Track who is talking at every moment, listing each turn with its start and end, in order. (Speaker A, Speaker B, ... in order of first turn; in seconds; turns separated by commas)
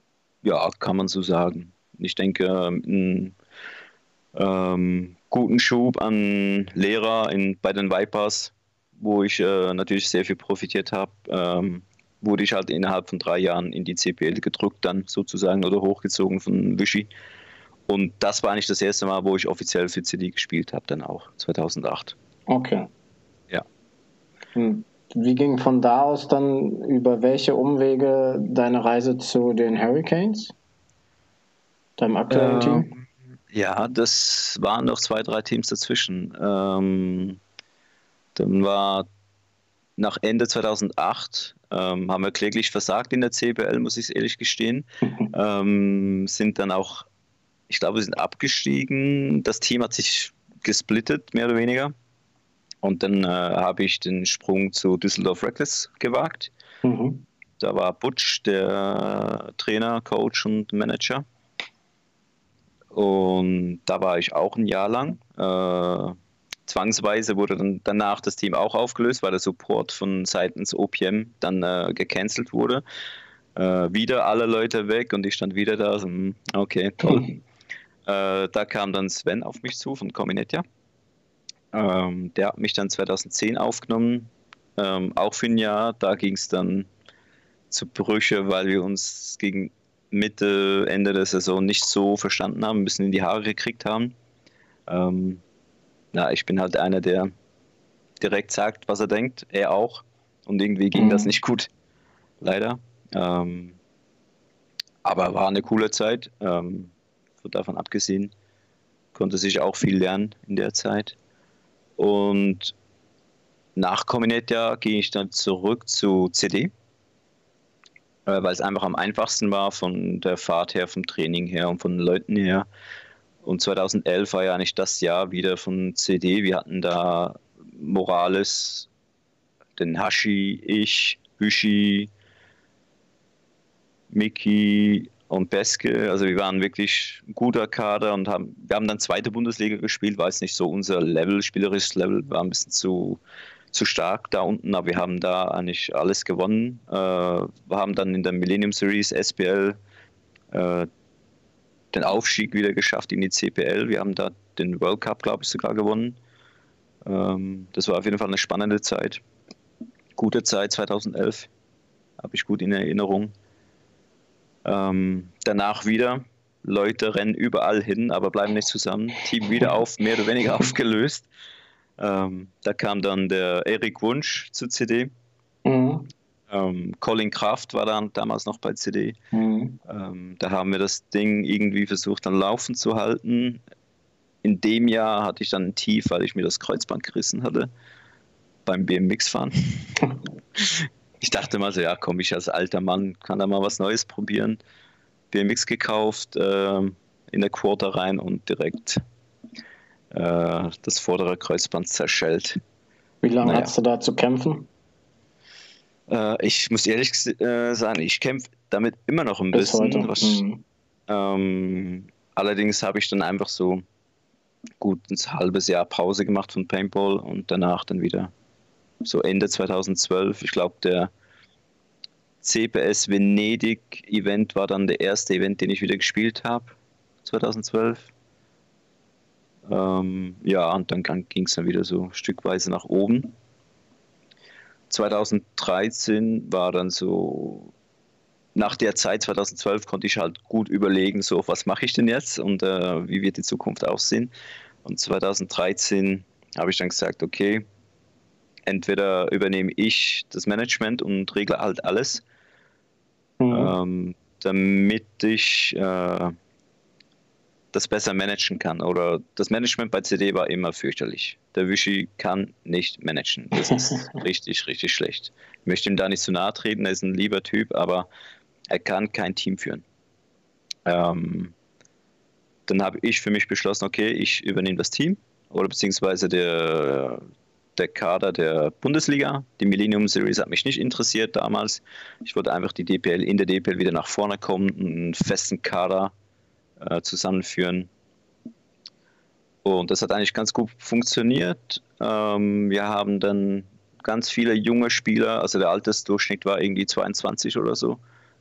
Speaker A: 0.4-3.4, Speaker A: 4.3-17.1, Speaker A: 17.9-22.2, Speaker B: 22.5-22.9, Speaker B: 24.6-30.5, Speaker B: 32.0-32.9, Speaker A: 32.3-37.4, Speaker A: 38.4-39.1, Speaker A: 40.0-47.1, Speaker A: 47.7-51.9, Speaker A: 52.8-56.5, Speaker B: 56.8-57.3, Speaker A: 57.6-61.2, Speaker A: 62.9-66.2, Speaker A: 66.7-72.8, Speaker A: 73.5-77.3, Speaker A: 78.1-80.6, Speaker A: 81.7-86.9, Speaker A: 87.7-94.2, Speaker A: 94.9-95.4, Speaker A: 96.1-97.3, Speaker A: 98.2-101.7, Speaker B: 101.0-101.3, Speaker A: 102.4-103.8, Speaker A: 105.0-108.3, Speaker A: 109.2-111.2, Speaker A: 112.0-112.8, Speaker A: 113.8-116.7, Speaker A: 118.3-122.7, Speaker A: 123.4-128.9, Speaker A: 129.8-132.1, Speaker A: 134.1-143.2, Speaker A: 143.7-149.8, Speaker A: 150.5-150.9, Speaker A: 151.9-156.2, Speaker A: 157.1-159.2, Speaker A: 160.2-161.5, Speaker A: 162.2-163.3, Speaker A: 164.7-171.3, Speaker A: 172.0-175.1, Speaker B: 175.7-176.1, Speaker A: 176.5-179.2, Speaker B: 179.3-179.8, Speaker A: 179.9-183.6, Speaker A: 184.4-187.7, Speaker A: 188.7-190.0, Speaker A: 190.6-194.6, Speaker A: 195.3-199.0, Speaker A: 200.1-202.6, Speaker B: 203.2-204.7, Speaker A: 203.4-203.7, Speaker A: 206.1-210.4, Speaker B: 209.5-210.6, Speaker A: 211.1-213.8, Speaker A: 214.8-218.3, Speaker A: 219.0-221.1, Speaker A: 222.4-228.1, Speaker A: 229.7-233.3, Speaker A: 234.9-237.7, Speaker A: 238.6-244.3, Speaker A: 244.8-247.7, Speaker A: 248.7-252.2, Speaker B: 253.4-253.7, Speaker A: 253.5-256.4, Speaker A: 257.7-268.1, Speaker B: 263.7-264.1, Speaker A: 268.7-269.8, Speaker A: 270.9-271.6, Speaker A: 272.7-277.2, Speaker A: 277.8-286.1, Speaker A: 286.8-287.9, Speaker A: 289.6-298.0